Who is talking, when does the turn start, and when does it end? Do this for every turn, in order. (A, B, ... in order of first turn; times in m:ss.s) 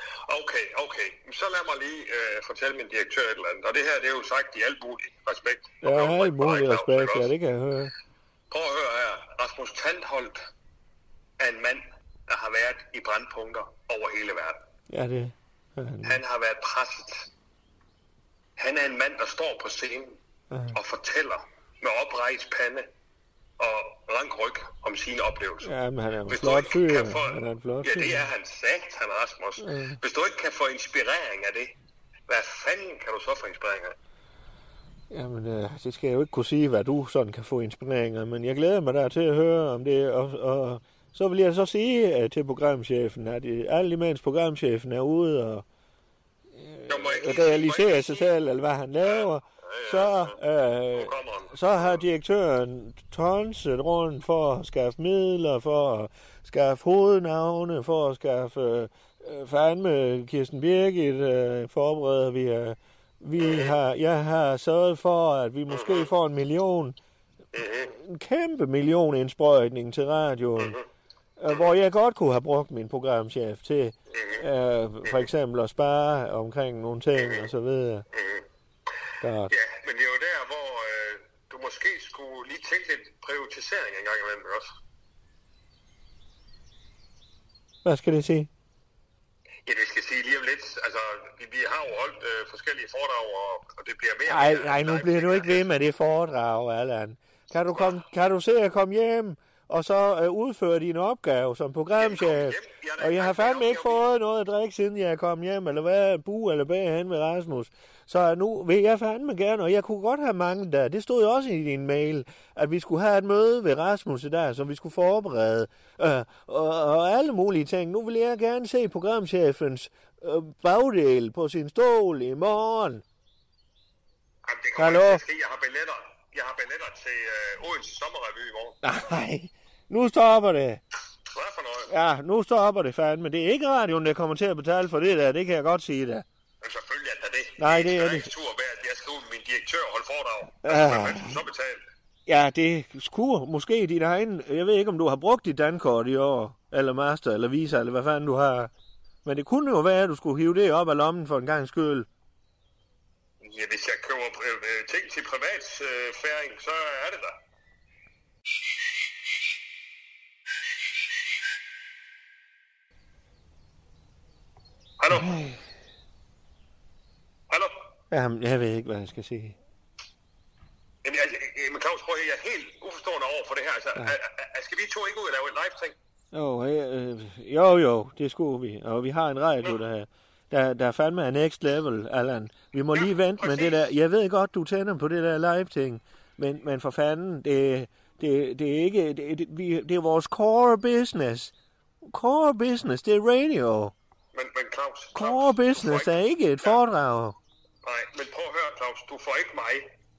0:00.3-0:07.3 A
0:05.8-0:07.9 B
0:08.5-0:10.4 A
0:11.4-0:14.6 A
0:14.9-0:16.2 B
0:16.0-0:17.3 A
0:18.6-0:20.2 A
0:20.5-0:20.8 B
0:20.7-0:22.9 A
0:23.6-0:25.7 A
0:25.6-0:28.3 B
0:26.3-0:31.7 A
0:29.6-0:30.0 B
0:32.3-0:34.0 A
0:35.1-0:45.6 B
0:46.6-1:07.0 B
0:46.9-0:48.3 A
0:49.0-0:50.4 A
0:50.9-0:52.0 A
1:03.4-1:03.7 A
1:05.7-1:06.1 A
1:07.5-1:08.0 A
1:07.9-1:10.8 B
1:10.6-1:10.8 A
1:11.4-1:18.1 B
1:14.1-1:14.5 A
1:17.2-1:17.5 A
1:18.1-1:18.5 A
1:19.2-1:19.5 B
1:19.5-1:24.7 A
1:27.8-1:28.5 B
1:29.7-1:35.7 A
1:34.3-2:03.0 B
1:42.0-1:44.0 A
2:04.4-2:08.8 A
2:04.8-2:05.2 B
2:08.8-2:10.8 B
2:11.3-2:11.9 A
2:11.9-2:16.2 B
2:16.6-2:21.8 A
2:17.6-2:18.3 B
2:20.6-2:21.4 B
2:22.3-2:28.7 B
2:29.2-2:32.1 B
2:33.4-2:37.4 A
2:45.0-2:45.3 A
2:45.1-2:45.6 B
2:47.5-2:47.7 A
2:48.1-2:49.6 B
2:51.0-2:56.0 A
2:56.3-3:11.5 B
3:02.9-3:03.9 A
3:12.1-3:13.9 B
3:14.3-3:16.8 A
3:15.2-3:17.4 B
3:17.8-3:19.9 A